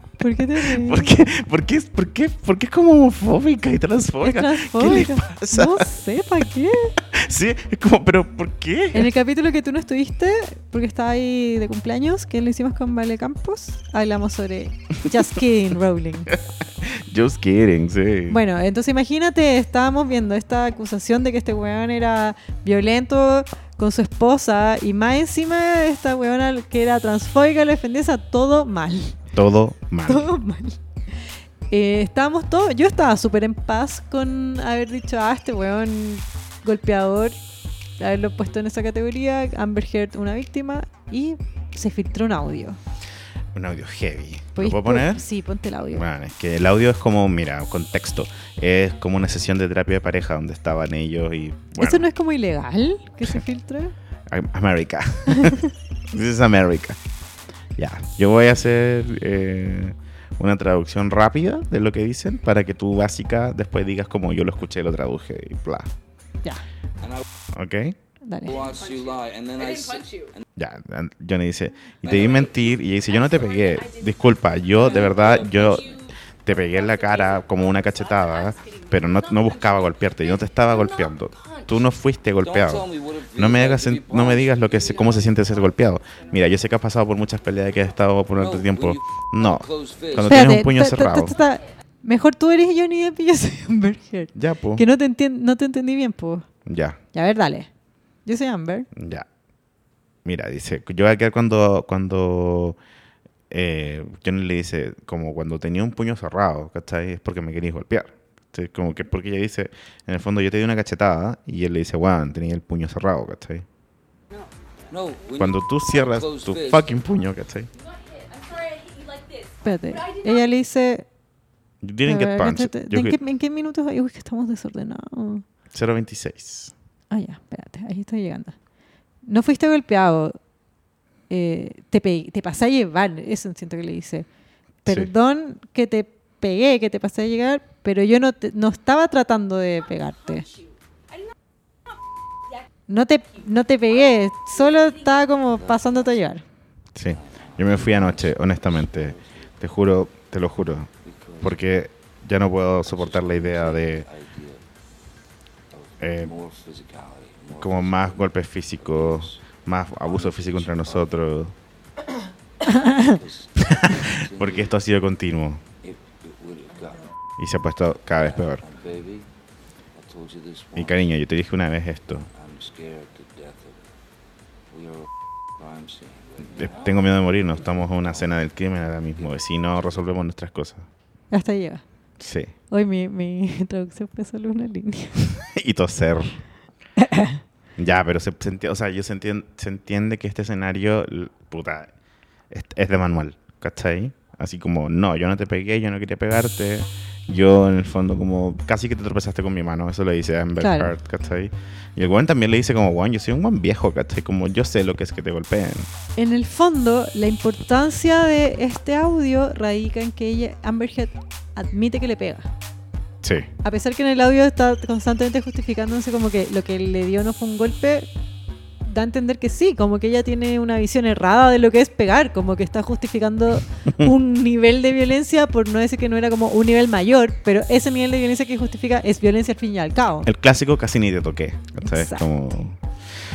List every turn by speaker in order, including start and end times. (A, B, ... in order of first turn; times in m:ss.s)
0:00.2-0:01.1 A
0:00.6-0:05.9 B
0:04.2-0:07.0 A
0:07.1-0:09.1 B
0:08.9-0:16.3 A
0:16.3-0:18.4 B
0:18.3-0:29.2 A
0:29.3-0:30.3 B
0:30.1-0:30.8 A
0:31.7-0:37.4 A
0:38.0-0:42.8 A
0:43.6-0:45.2 B
0:44.6-0:46.0 A
0:45.9-0:52.1 B
0:51.8-0:53.9 A
0:54.3-0:55.6 B
0:55.3-0:55.7 A
0:56.1-0:57.0 B
0:57.8-1:05.9 B
1:07.5-1:08.0 B
1:08.2-1:08.6 A
1:08.4-1:10.4 C
1:10.6-1:31.4 B
1:12.0-1:12.4 C
1:22.4-1:25.1 C
1:28.4-1:30.4 C
1:30.3-1:36.5 A
1:34.4-1:34.8 B
1:36.7-1:37.0 B
1:37.1-1:37.7 A
1:38.3-1:38.9 A
1:39.0-1:39.3 B
1:40.2-1:42.8 B
1:43.5-1:53.6 B
1:54.9-1:57.0 C
1:55.4-1:57.7 B
1:59.6-2:01.1 A
2:01.8-2:03.2 B
2:02.1-2:05.4 A
2:05.7-2:06.7 B
2:07.1-2:08.6 A
2:09.3-2:10.4 A
2:11.3-2:14.3 A
2:14.8-2:20.5 A
2:14.9-2:15.1 B
2:22.9-2:26.4 A
2:25.6-2:26.0 C
2:27.0-2:30.9 B
2:27.1-2:29.6 C
2:31.0-2:31.6 C
2:31.4-2:34.1 B
2:32.8-2:34.6 C
2:35.7-2:39.5 C
2:36.0-2:36.3 B
2:37.6-2:41.6 B
2:40.0-2:41.2 C
2:42.9-2:44.8 C
2:43.6-2:45.6 B
2:45.8-2:47.1 C
2:47.4-2:48.6 B
2:48.1-2:49.3 C
2:50.0-2:51.1 C
2:50.8-2:52.3 B
2:52.3-2:53.9 C
2:54.7-2:58.4 C
2:56.5-3:00.9 B
2:59.2-3:00.0 C
3:01.3-3:01.8 A
3:02.2-3:02.5 B
3:02.7-3:05.2 A
3:05.3-3:06.4 B
3:07.0-3:07.4 A
3:07.8-3:11.9 B
3:12.5-3:25.9 B
3:20.6-3:20.9 A
3:26.2-3:32.5 A
3:33.2-3:33.5 B
3:33.6-3:38.1 A
3:38.8-3:50.3 A
3:50.2-3:52.8 B
3:51.8-3:52.2 A